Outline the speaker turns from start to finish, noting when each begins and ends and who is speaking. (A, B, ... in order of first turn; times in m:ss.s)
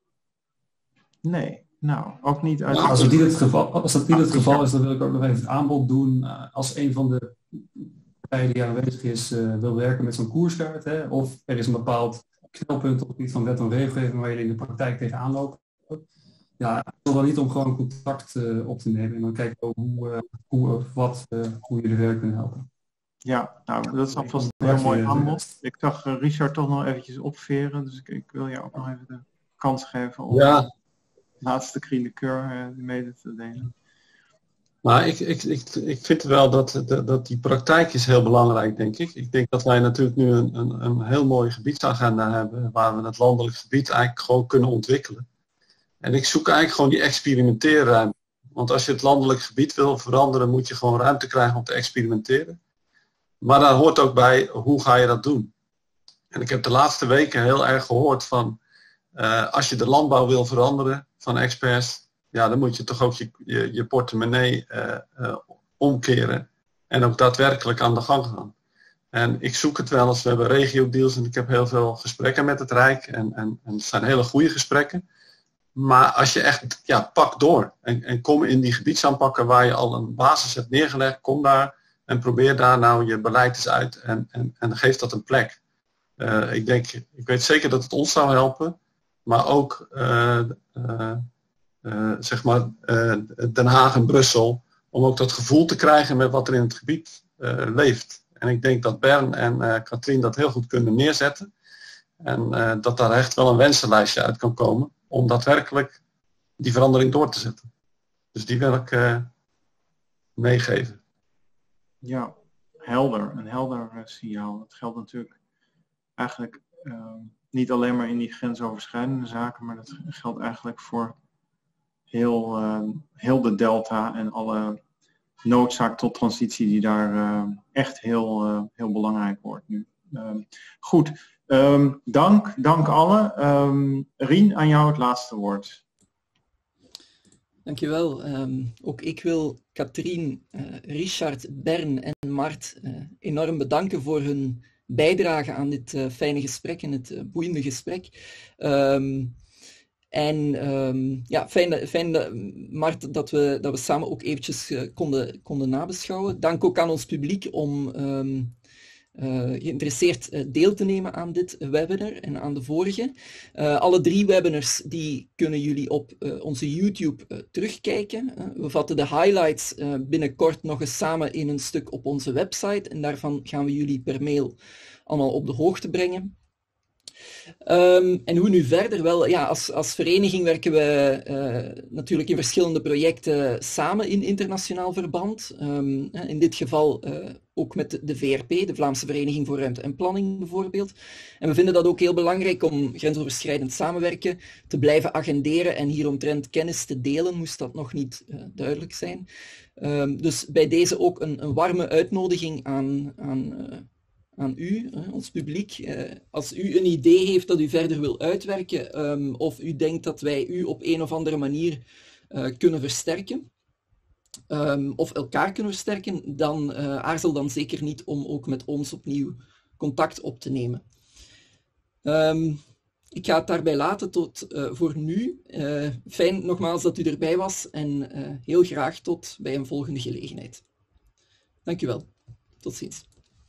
0:01.2-0:03.3 A
0:02.7-0:16.0 B
0:04.2-0:04.6 A
0:16.6-0:22.7 B
0:23.2-0:30.7 A
0:24.0-0:25.5 B
0:30.3-0:30.7 C
0:31.4-0:33.7 A
0:34.8-0:45.2 C
0:46.0-0:52.6 C
0:53.4-0:55.5 C
0:56.3-0:58.6 C
0:59.2-1:08.5 C
1:09.1-1:15.0 C
1:15.8-1:25.6 C
1:26.2-1:31.3 C
1:31.8-1:41.5 C
1:42.2-1:46.0 C
1:46.6-1:47.7 C
1:48.3-1:49.3 C
1:50.4-1:51.0 C
1:52.0-1:55.4 A
1:56.2-2:01.2 A
2:02.1-2:04.8 A
2:05.4-2:15.8 A
2:17.7-2:29.4 D
2:30.1-2:38.6 D
2:39.2-2:54.6 D
2:55.1-2:56.3 D
2:57.6-3:23.9 D
3:24.4-3:33.5 D
3:34.5-3:40.8 D
3:42.0-3:50.6 D
3:51.6-3:52.1 D
3:52.6-3:53.1 D